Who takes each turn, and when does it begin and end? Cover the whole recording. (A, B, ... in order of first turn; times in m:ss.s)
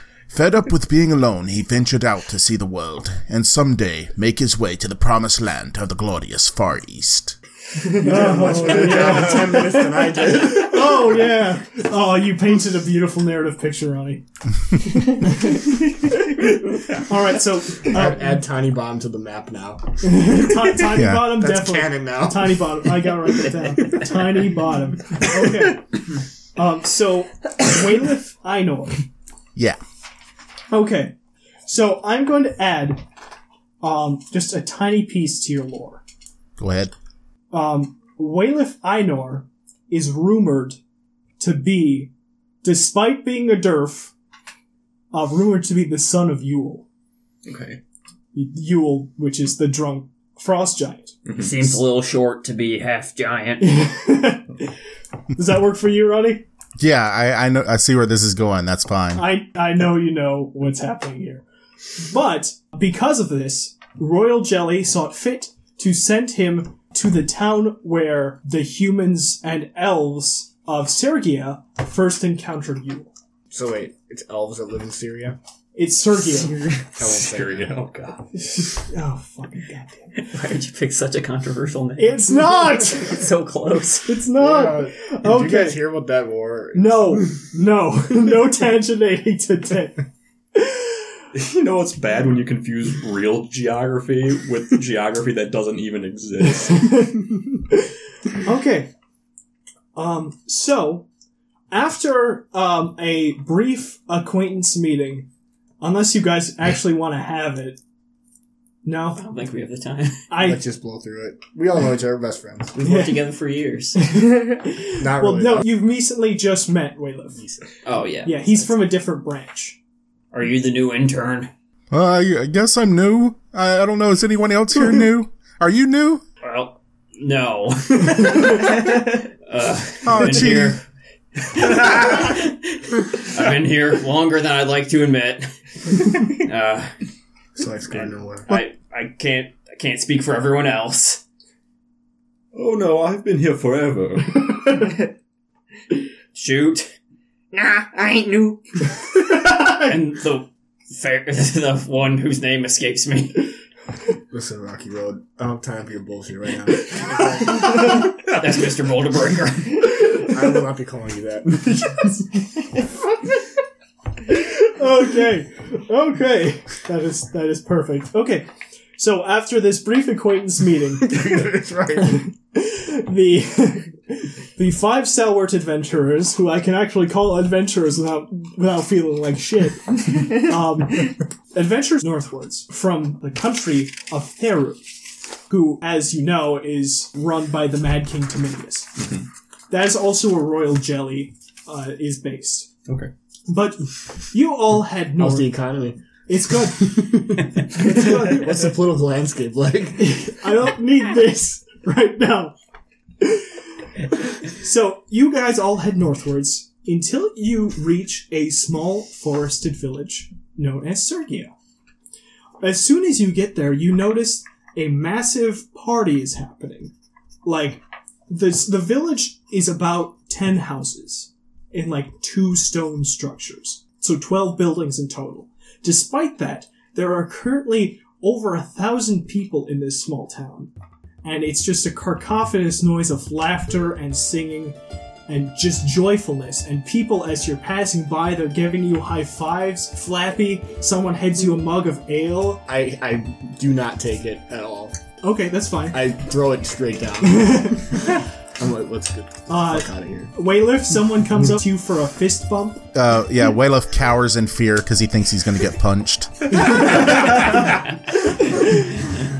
0:00.3-0:07.4 A
0:07.9-0:11.0 B
0:08.0-0:14.2 C
0:14.8-0:15.8 C
0:16.8-0:18.4 C
0:17.8-0:20.4 B
0:20.0-0:26.0 C
0:20.9-0:21.4 A
0:21.1-0:22.9 B
0:26.6-0:29.0 C
0:30.7-0:33.0 C
0:33.8-0:36.0 C
0:36.6-0:36.9 A
0:37.5-0:40.8 C
0:41.4-0:42.1 C
0:42.6-0:44.1 C
0:45.1-0:46.9 C
0:47.4-0:47.8 D
0:48.3-0:51.2 C
0:51.2-0:51.8 D
0:51.4-0:53.8 E
0:53.6-0:54.7 C
0:55.3-0:56.4 C
0:56.8-0:59.2 A
0:59.1-1:01.4 C
1:02.0-1:13.1 C
1:13.5-1:15.4 B
1:15.8-1:16.6 C
1:17.0-1:17.7 B
1:17.0-1:18.3 D
1:18.3-1:20.2 C
1:20.2-1:24.1 E
1:22.0-1:23.2 C
1:24.0-1:25.8 C
1:24.3-1:27.3 B
1:26.7-1:31.1 C
1:31.3-1:37.1 D
1:36.7-1:38.9 C
1:39.9-1:41.0 C
1:41.7-1:45.3 C
1:45.8-1:47.8 C
1:48.8-1:49.2 C
1:49.1-1:50.3 E
1:50.3-1:50.6 C
1:50.3-1:52.8 B
1:52.7-1:54.1 E
1:52.8-1:53.2 C
1:54.0-1:57.4 C
1:54.9-1:55.7 B
1:57.3-1:57.7 B
1:57.8-1:58.7 E
1:58.2-1:59.8 C
2:00.3-2:01.5 E
2:01.9-2:06.2 A
2:06.4-2:10.8 E
2:10.0-2:10.8 A
2:11.4-2:16.9 E
2:17.6-2:18.5 B
2:18.5-2:21.2 E
2:22.5-2:24.9 D
2:26.3-2:26.9 E
2:27.5-2:33.5 E
2:34.3-2:37.8 B
2:37.6-2:39.9 E
2:40.1-2:42.0 B
2:41.8-2:42.2 C
2:44.3-2:51.2 C
2:51.0-2:52.3 B
2:52.5-3:09.0 C
3:09.7-3:12.7 C
3:13.5-3:15.6 C
3:15.2-3:16.0 B
3:16.3-3:18.4 C
3:16.8-3:20.4 B
3:20.0-3:22.5 C
3:23.2-3:31.5 C
3:32.6-3:36.9 C
3:37.4-3:50.7 C
3:51.2-3:54.8 C
3:55.3-4:02.6 C
4:02.6-4:05.0 B
4:05.2-4:06.1 C
4:05.9-4:10.3 B
4:07.2-4:08.0 C
4:09.5-4:12.8 C
4:12.9-4:16.9 A
4:16.6-4:17.6 C
4:18.3-4:19.0 C